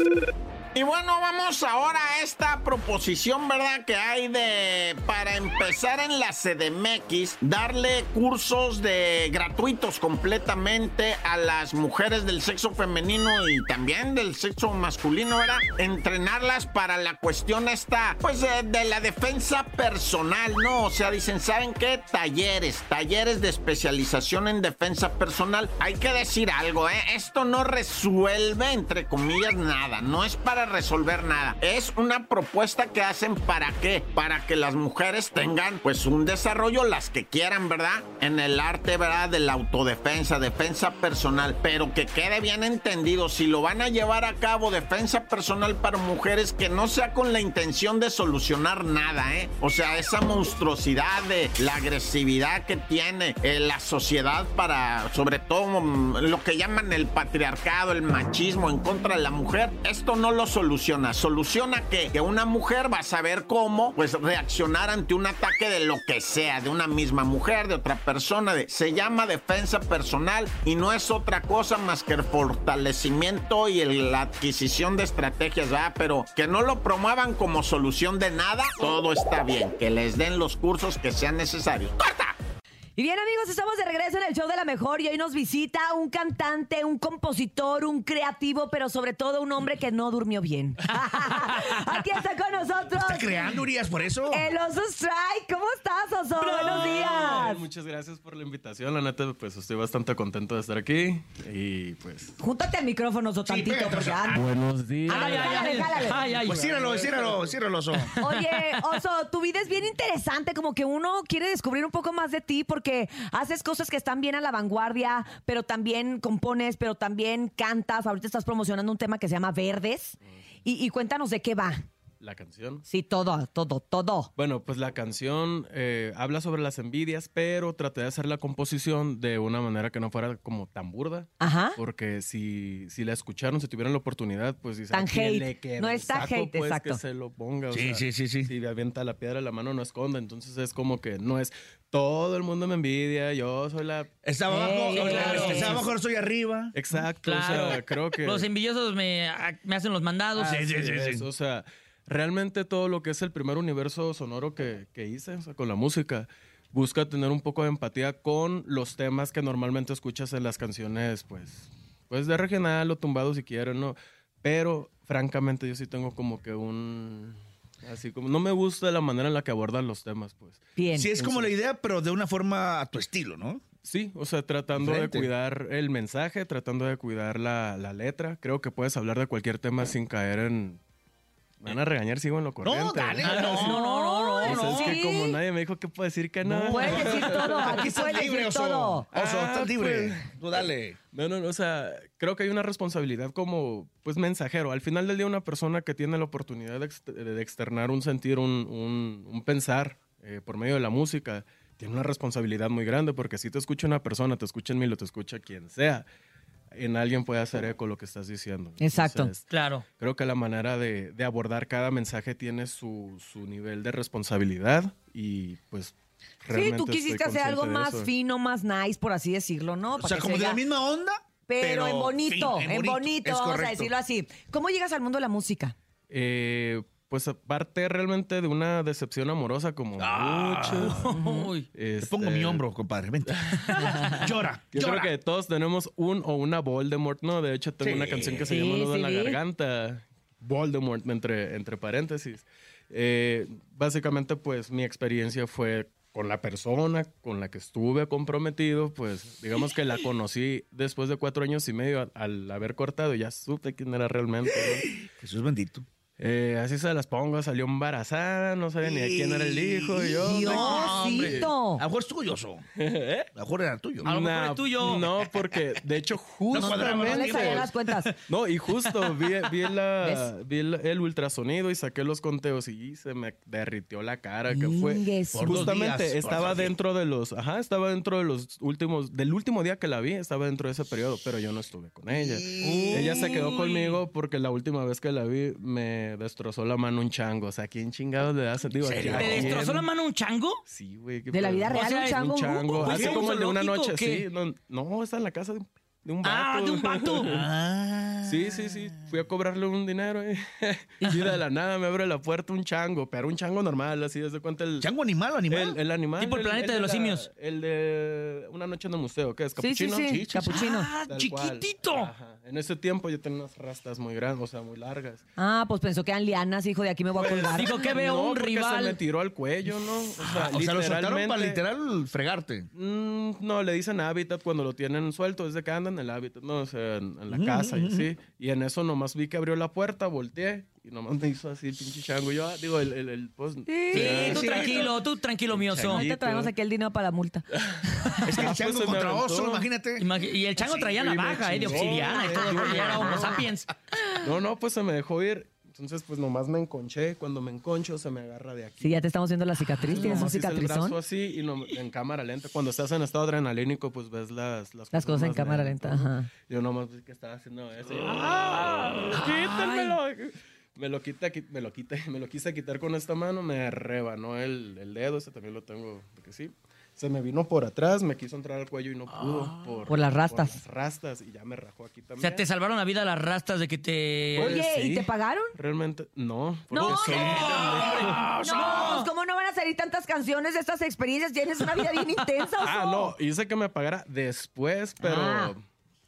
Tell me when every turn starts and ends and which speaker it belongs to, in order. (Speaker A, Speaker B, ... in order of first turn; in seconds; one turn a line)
Speaker A: 0.7-82.3
Speaker B: 83.0-93.6
Speaker C: 93.0-94.5
Speaker B: 94.3-97.6
Speaker D: 96.4-97.5
Speaker E: 96.8-102.4
Speaker B: 102.4-104.4
Speaker C: 103.4-104.4
Speaker E: 104.3-107.6
Speaker B: 105.1-106.3
Speaker D: 105.1-106.6
Speaker C: 106.5-108.1
Speaker D: 107.9-108.8
Speaker B: 108.2-121.8
Speaker E: 122.2-122.8
Speaker B: 122.9-124.3
Speaker E: 124.3-144.1
Speaker B: 131.4-131.8
Speaker B: 134.9-137.0
Speaker C: 137.7-138.5
Speaker C: 144.2-146.7
Speaker B: 144.5-145.8
Speaker D: 144.9-145.8
Speaker E: 144.9-145.7
Speaker E: 146.7-148.5
Speaker D: 146.9-150.6
Speaker E: 150.3-171.5
Speaker C: 150.4-151.2
Speaker B: 170.8-171.2
Speaker C: 171.0-173.6
Speaker E: 173.8-180.8
Speaker C: 174.7-175.3
Speaker E: 181.6-183.8
Speaker C: 182.6-183.8
Speaker D: 183.2-185.0
Speaker B: 183.6-185.4
Speaker E: 184.4-188.0
Speaker C: 186.4-191.0
Speaker B: 186.7-189.1
Speaker E: 189.1-206.1
Speaker E: 206.7-218.1
Speaker B: 208.8-209.3
Speaker D: 209.5-209.8
Speaker B: 216.5-220.6
Speaker C: 219.9-223.9
Speaker B: 221.5-225.7
Speaker E: 226.1-231.1
Speaker C: 230.0-231.0
Speaker D: 230.8-231.7
Speaker B: 231.1-231.5
Speaker E: 231.7-232.6
Speaker C: 232.0-235.1
Speaker E: 233.3-233.6
Speaker D: 233.7-234.2
Speaker E: 234.7-254.9
Speaker C: 237.8-238.5
Speaker B: 238.5-239.4
Speaker C: 254.6-255.8
Speaker E: 256.2-261.5
Speaker C: 258.8-262.6
Speaker B: 260.2-261.8
Speaker E: 262.8-263.3
Speaker C: 263.3-264.1
Speaker E: 264.0-267.7
Speaker D: 264.0-265.1
Speaker C: 266.5-267.7
Speaker B: 266.6-268.1
Speaker E: 268.3-289.9
Speaker B: 270.0-270.3
Speaker B: 274.5-275.7
Speaker C: 275.3-276.7
Speaker C: 282.1-283.6
Speaker D: 282.6-284.0
Speaker C: 288.8-289.6
Speaker D: 289.1-290.6
Speaker E: 290.6-297.5
Speaker B: 291.3-292.8
Speaker D: 291.7-294.3
Speaker C: 292.8-293.4
Speaker D: 296.2-297.3
Speaker C: 297.2-299.0
Speaker E: 298.2-304.9
Speaker D: 301.0-301.3
Speaker C: 304.8-305.8
Speaker E: 305.5-310.2
Speaker D: 306.2-307.3
Speaker B: 309.6-310.9
Speaker C: 310.1-310.6
Speaker D: 310.5-312.1
Speaker E: 311.1-315.2
Speaker B: 315.4-317.7
Speaker E: 317.1-321.6
Speaker D: 317.5-319.0
Speaker C: 320.2-322.7
Speaker E: 322.7-336.5
Speaker C: 327.3-328.1
Speaker B: 333.7-334.6
Speaker D: 333.9-336.0
Speaker C: 334.0-334.9
Speaker B: 335.9-337.4
Speaker E: 337.5-339.7
Speaker C: 338.2-342.0
Speaker D: 340.0-343.7
Speaker E: 341.0-343.4
Speaker B: 342.1-343.4
Speaker E: 344.2-349.0
Speaker B: 348.8-351.0
Speaker D: 349.8-350.3
Speaker E: 349.9-372.4
Speaker B: 354.9-356.3
Speaker D: 359.1-359.9
Speaker B: 369.9-370.6
Speaker D: 372.2-374.6
Speaker E: 374.3-378.2
Speaker B: 374.4-375.5
Speaker B: 376.7-377.8
Speaker C: 376.8-379.0
Speaker D: 376.9-379.1
Speaker B: 378.4-383.1
Speaker E: 382.6-385.6
Speaker B: 385.0-385.5